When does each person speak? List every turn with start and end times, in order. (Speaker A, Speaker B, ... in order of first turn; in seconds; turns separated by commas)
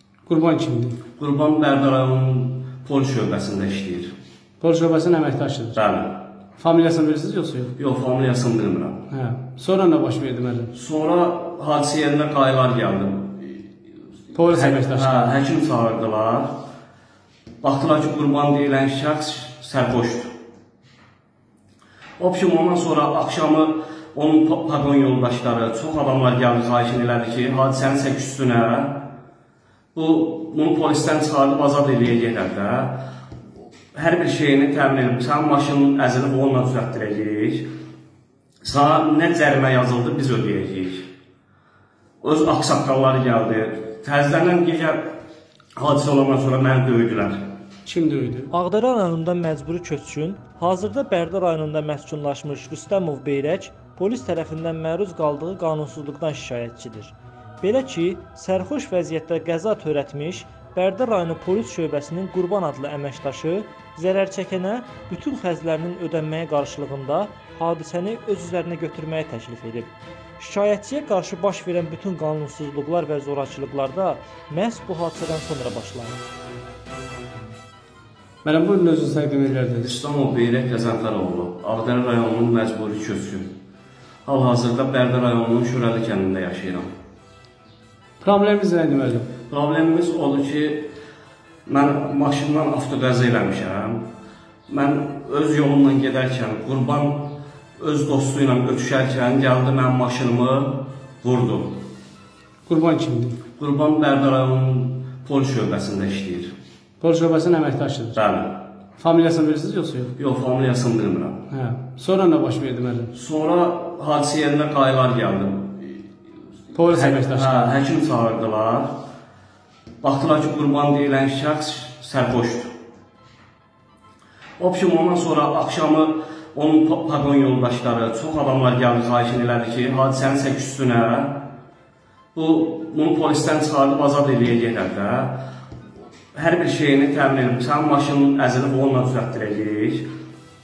Speaker A: 0.3-1.0, Speaker B: 1.2-4.1, Speaker A: 4.6-5.8, Speaker B: 5.8-6.2, Speaker A: 6.6-7.7, Speaker B: 7.8-9.1, Speaker A: 9.1-10.7, Speaker B: 10.7-13.6, Speaker A: 14.3-15.2, Speaker B: 14.4-16.5, Speaker B: 17.6-20.3, Speaker B: 22.2-29.0, Speaker B: 29.9-33.0, Speaker B: 33.9-37.7, Speaker B: 38.6-41.0, Speaker B: 42.2-45.0, Speaker B: 45.8-47.4, Speaker A: 47.9-48.5, Speaker C: 48.5-76.2, Speaker A: 78.4-79.9, Speaker B: 79.8-83.5, Speaker B: 84.3-86.9, Speaker A: 88.2-89.3, Speaker B: 89.5-90.8, Speaker B: 91.7-94.0, Speaker B: 94.7-101.7, Speaker A: 102.7-103.4, Speaker B: 103.6-106.5, Speaker A: 107.0-108.2, Speaker B: 108.2-108.6, Speaker A: 109.0-110.1, Speaker B: 110.2-111.4, Speaker A: 111.5-113.1, Speaker B: 113.1-116.0, Speaker A: 116.8-117.6, Speaker B: 116.9-118.9, Speaker B: 120.0-122.7, Speaker B: 124.6-131.4, Speaker B: 132.3-135.4, Speaker B: 136.3-140.1